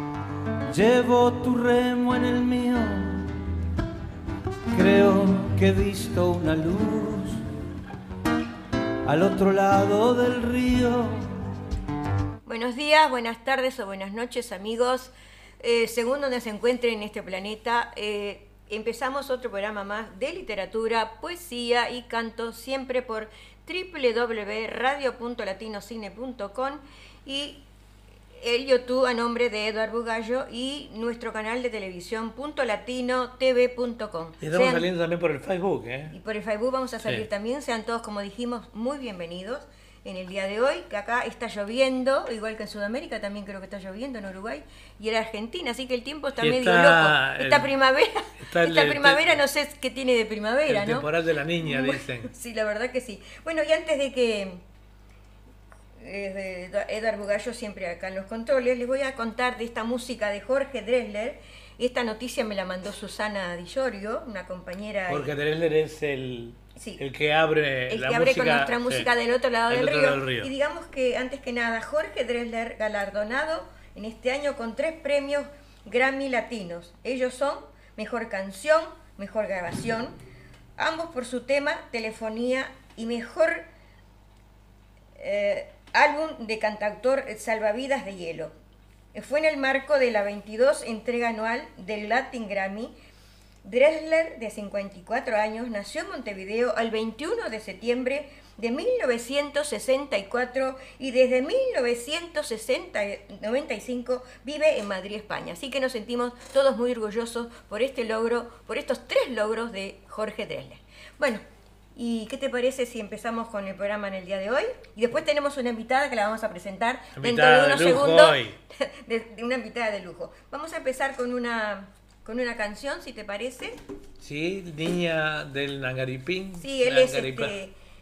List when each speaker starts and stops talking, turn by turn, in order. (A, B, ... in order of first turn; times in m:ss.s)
0:00.7-0:03.2 A
0:04.7-0:07.4 A
0:09.0-0:11.4 A
0:12.5-0:27.6 B
0:28.4-0:34.9 B
0:34.4-0:36.1 C
0:36.1-0:51.0 B
0:46.4-0:47.7 C
0:48.4-0:49.4 C
0:50.7-0:52.3 C
0:51.6-0:54.6 B
0:56.0-1:05.3 B
1:05.1-1:09.1 C
1:06.8-1:07.0 B
1:07.9-1:20.2 B
1:09.7-1:10.5 C
1:20.8-1:23.7 B
1:25.2-1:28.5 B
1:29.1-1:32.9 B
1:33.6-1:51.4 B
1:52.0-2:03.8 B
1:57.2-1:58.6 C
2:04.2-2:07.6 C
2:06.6-2:07.7 B